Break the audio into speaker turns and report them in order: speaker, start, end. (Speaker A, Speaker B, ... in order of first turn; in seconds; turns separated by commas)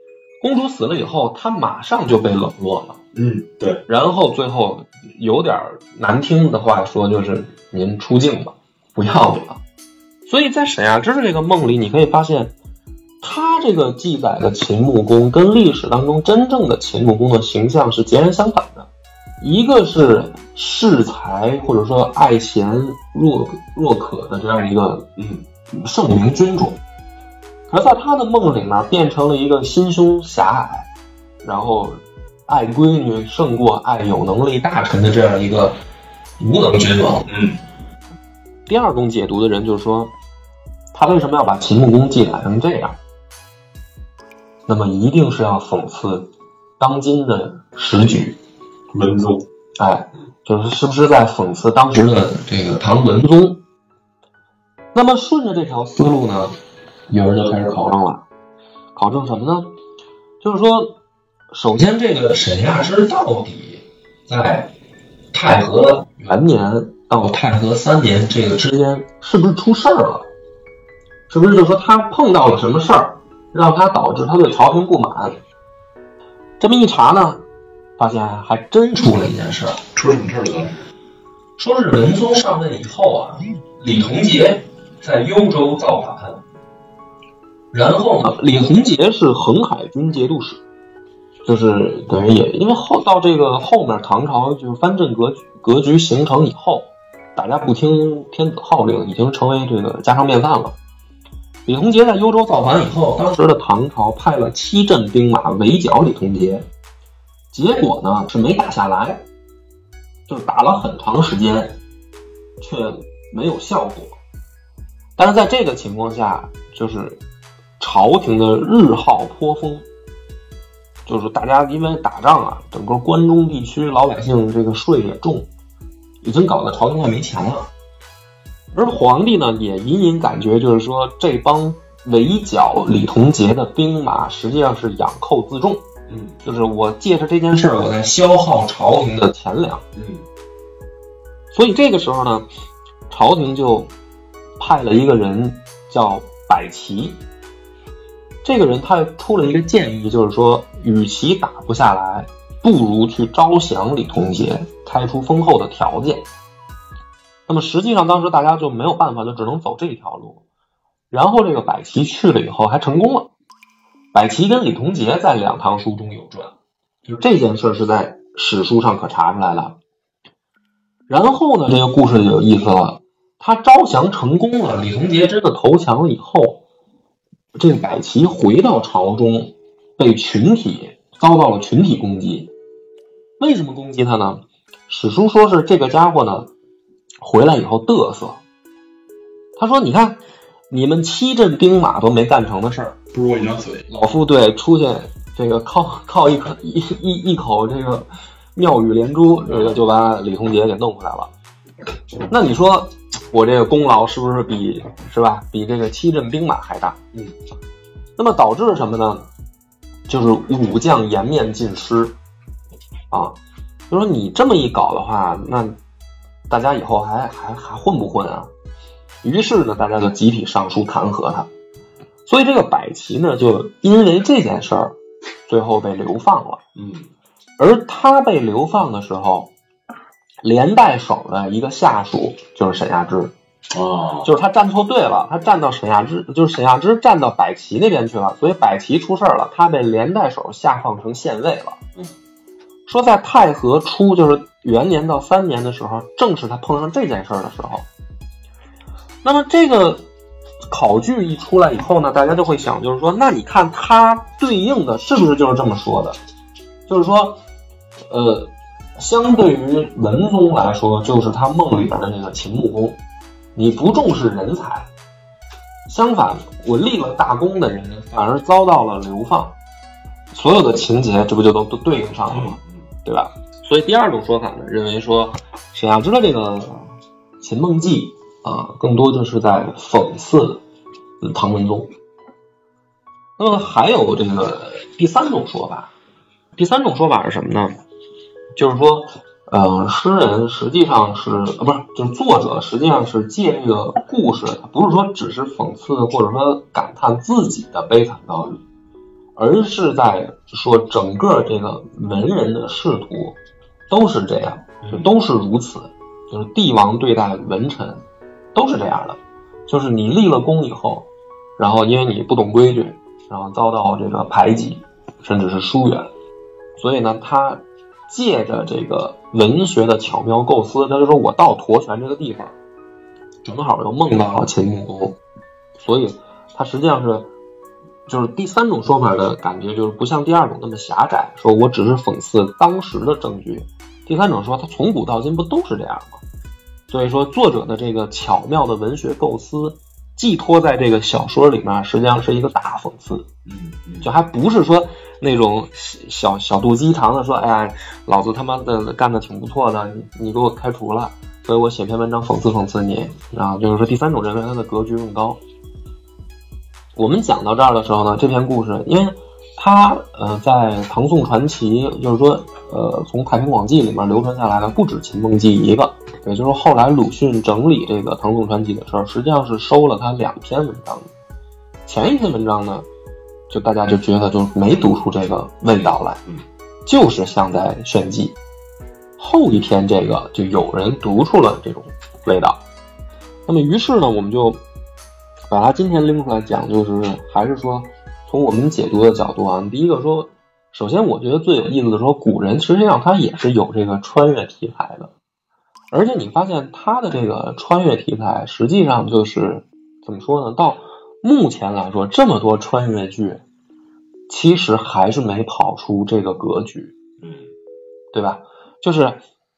Speaker A: 0.4-3.0, Speaker B: 3.1-3.8, Speaker A: 3.9-9.6, Speaker A: 10.3-12.6, Speaker A: 13.2-18.9, Speaker A: 19.4-25.1, Speaker B: 25.2-25.4, Speaker A: 25.7-26.8, Speaker A: 27.7-30.9, Speaker A: 31.4-35.8, Speaker A: 36.4-37.3, Speaker B: 37.3-37.6, Speaker A: 38.7-40.1, Speaker A: 40.9-43.0, Speaker A: 44.7-48.4, Speaker B: 48.9-49.5, Speaker A: 49.8-53.6, Speaker A: 54.9-56.5, Speaker A: 57.1-58.3, Speaker A: 59.0-59.8, Speaker A: 60.4-61.0, Speaker A: 61.5-64.7, Speaker A: 65.3-70.3, Speaker A: 71.3-75.4, Speaker A: 76.6-77.5, Speaker A: 78.0-79.8, Speaker B: 79.9-80.9, Speaker A: 81.6-86.4, Speaker A: 87.7-90.6, Speaker A: 91.5-100.8, Speaker A: 101.7-106.7, Speaker A: 107.5-109.3, Speaker A: 110.3-111.8, Speaker A: 112.6-114.2, Speaker A: 115.2-117.2, Speaker A: 117.8-119.9, Speaker A: 121.1-125.5, Speaker A: 126.2-127.7, Speaker A: 128.7-135.8, Speaker B: 136.1-136.4, Speaker A: 136.4-139.8, Speaker B: 140.0-140.2, Speaker A: 141.5-142.5, Speaker A: 143.1-143.9, Speaker A: 144.6-147.2, Speaker A: 148.4-156.3, Speaker A: 157.5-160.4, Speaker A: 161.1-163.3, Speaker A: 164.1-166.6, Speaker A: 167.1-169.8, Speaker A: 171.1-176.6, Speaker A: 177.6-182.5, Speaker A: 183.4-186.5, Speaker A: 187.2-188.4, Speaker A: 189.6-193.0, Speaker B: 193.1-193.9, Speaker A: 193.9-201.3, Speaker A: 202.3-207.0, Speaker A: 208.2-209.3, Speaker A: 210.1-212.2, Speaker A: 213.1-213.4, Speaker A: 213.9-215.8, Speaker A: 216.5-218.5, Speaker A: 219.2-221.5, Speaker A: 222.3-225.0, Speaker A: 225.5-226.6, Speaker B: 226.8-227.1, Speaker A: 227.6-229.5, Speaker A: 230.4-233.3, Speaker B: 233.7-234.3, Speaker A: 234.2-241.8, Speaker A: 242.9-247.9, Speaker A: 249.2-250.1, Speaker A: 250.7-256.2, Speaker A: 256.9-257.4, Speaker A: 258.1-263.0, Speaker A: 263.6-264.9, Speaker A: 265.9-269.6, Speaker A: 270.3-280.6, Speaker B: 272.3-272.9, Speaker A: 281.2-281.9, Speaker A: 283.4-285.9, Speaker A: 286.6-287.7, Speaker A: 288.6-298.6, Speaker A: 299.4-303.4, Speaker A: 303.9-308.0, Speaker A: 308.6-316.1, Speaker A: 316.8-322.5, Speaker A: 323.4-325.2, Speaker A: 325.8-327.3, Speaker A: 328.1-336.2, Speaker A: 336.9-343.3, Speaker B: 343.5-344.1, Speaker A: 344.0-355.4, Speaker A: 357.0-371.1, Speaker A: 371.9-372.9, Speaker A: 373.5-376.2, Speaker A: 376.9-378.4, Speaker A: 379.2-382.6, Speaker A: 383.5-384.6, Speaker A: 385.5-395.1, Speaker A: 395.9-403.4, Speaker A: 404.3-406.9, Speaker B: 407.2-407.5, Speaker A: 408.1-409.2